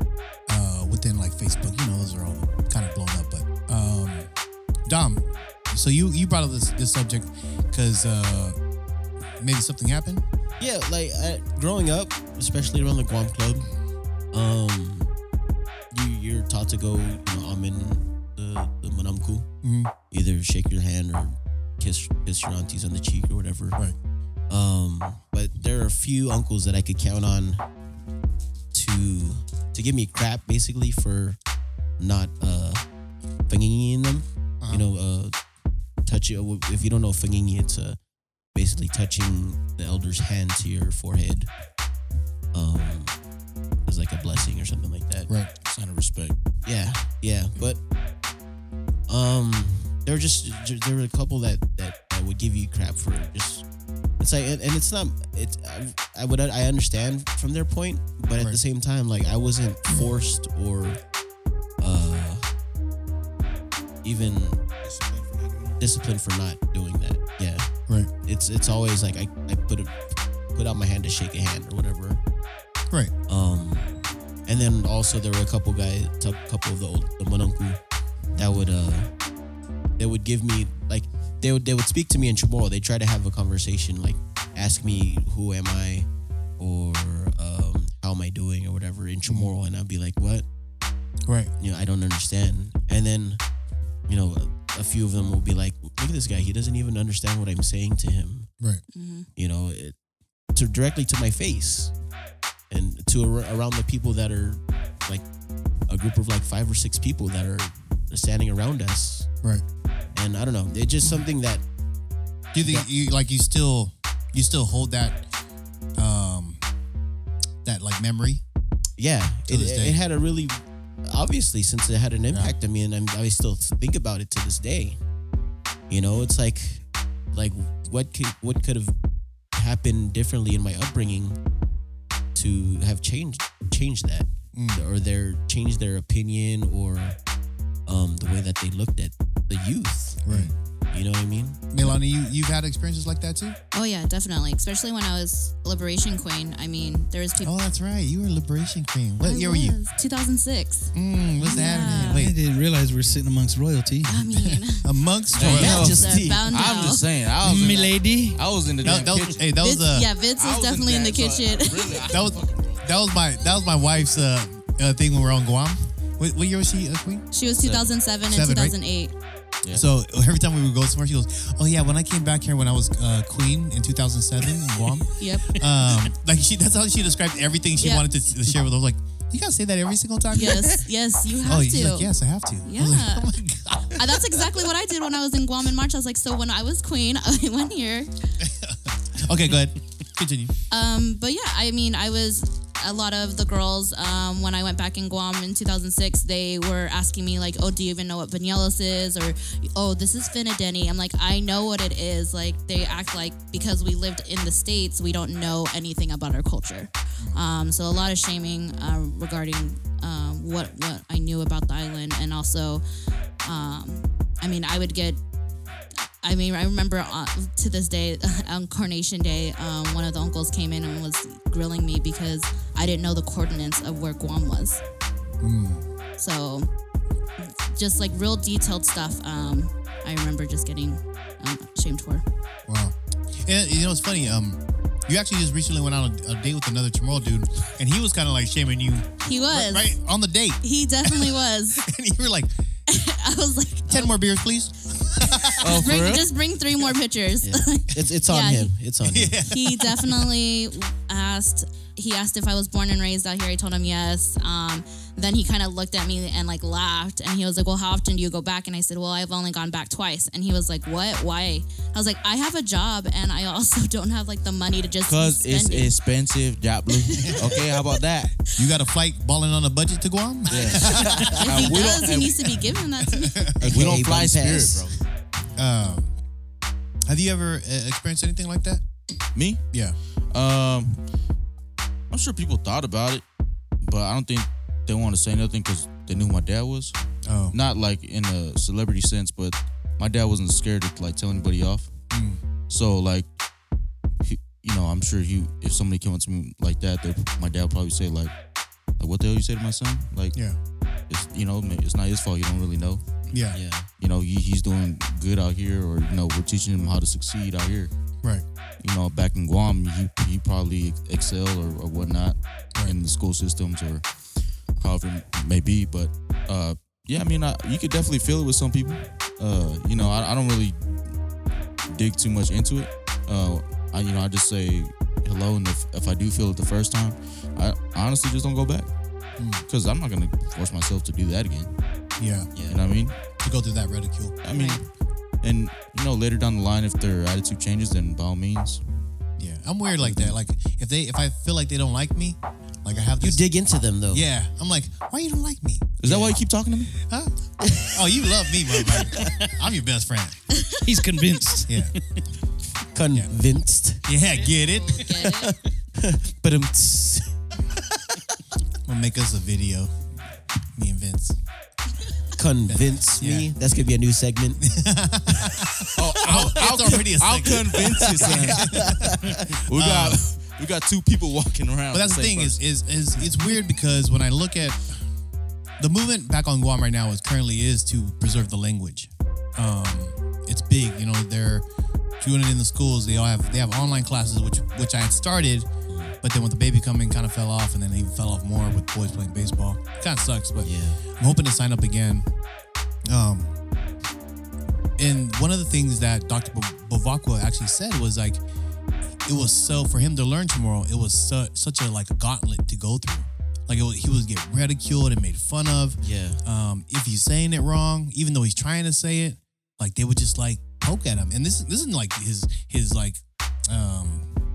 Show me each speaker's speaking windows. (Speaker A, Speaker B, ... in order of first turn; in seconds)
Speaker A: 0.5-4.3, 4.9-8.6, 9.4-10.2, 19.6-19.9, 34.6-34.9, 89.2-89.5, 91.3-91.5, 112.5-115.2, 116.0-116.6, 117.7-118.4, 119.5-120.0, 134.5-134.9, 140.2-140.5, 141.7-143.6, 147.4-149.8, 150.9-152.3, 154.4-156.1, 158.8-160.1, 162.0-167.2, 168.3-168.8, 169.7-180.9, 181.4-184.4, 188.4-190.5, 225.4-225.9, 232.7-242.5, 243.9-246.0, 249.0-250.2, 267.2-267.6, 268.6-271.6, 273.1-273.8, 275.6-276.1, 277.1-278.8, 287.2-287.6, 292.1-292.4, 303.3-303.6, 329.4-329.6, 332.2-332.5, 333.4-334.4, 339.4-343.4, 344.1-345.9, 347.0-350.4, 351.7-351.9, 354.1-355.1, 358.9-359.9, 360.8-361.4, 362.7-363.5, 364.6-370.3, 371.9-375.0, 375.8-381.6, 382.2-385.7, 386.2-392.3, 393.1-393.6, 395.0-398.4, 399.2-414.3
Speaker B: 10.6-13.7, 14.3-15.1, 15.9-19.5, 20.1-23.8, 24.5-27.6, 28.7-31.4, 32.0-32.8, 33.5-35.3, 36.1-38.0, 38.5-41.5, 42.5-43.2, 43.9-45.3, 46.6-47.8, 49.1-53.6, 54.2-61.0, 61.8-62.5, 64.0-64.6, 65.8-67.7, 68.2-70.0, 70.5-72.2, 73.3-73.9, 74.5-77.8, 78.4-79.1, 80.0-86.1, 86.6-90.5, 91.6-93.4, 94.1-98.5, 99.4-100.0, 100.5-101.9, 102.7-105.2, 105.9-109.3, 110.2-111.6, 112.6-112.9, 119.0-125.0, 125.9-126.8, 127.3-128.9, 129.6-131.4, 132.3-137.2, 137.9-140.2, 140.9-141.7, 155.4-156.9, 247.4-249.4, 273.6-275.0, 303.5-303.9, 332.5-332.8, 343.2-344.2, 346.1-346.4, 347.6-349.5, 352.9-354.1, 355.2-357.4, 362.4-364.6, 367.7-369.5, 385.9-386.1, 390.6-391.0, 406.0-406.4
Speaker C: 45.6-46.4, 155.4-159.5, 160.4-162.8, 167.6-168.0, 245.6-246.3, 265.1-268.3, 270.5-272.6, 273.7-274.9, 279.4-279.6, 280.3-281.0, 282.1-283.2, 283.8-286.9, 287.5-291.9, 292.7-293.3, 294.2-298.3, 299.0-300.4, 301.1-303.0, 304.0-307.9, 308.8-314.0, 314.8-320.8, 321.9-328.9, 329.7-331.7, 332.7-333.2, 334.4-334.9, 335.4-338.8, 340.0-340.4, 346.0-346.9, 366.0-372.6
Speaker D: 64.8-65.8, 151.6-154.2, 157.4-158.4, 350.8-352.2
Speaker E: 98.9-99.3, 143.7-147.5, 149.2-150.9, 151.5-152.3, 154.1-157.1, 159.6-162.1, 167.3-169.1, 175.2-175.6, 177.8-178.1, 180.3-182.1, 182.7-183.3, 183.9-188.1, 190.7-212.8, 213.4-215.2, 216.2-224.8, 226.2-226.7, 227.4-232.2, 239.2-239.9, 240.6-241.8, 242.9-244.1, 245.5-248.8, 249.5-265.9, 267.0-267.8, 271.3-273.6, 334.5-334.8, 354.4-355.6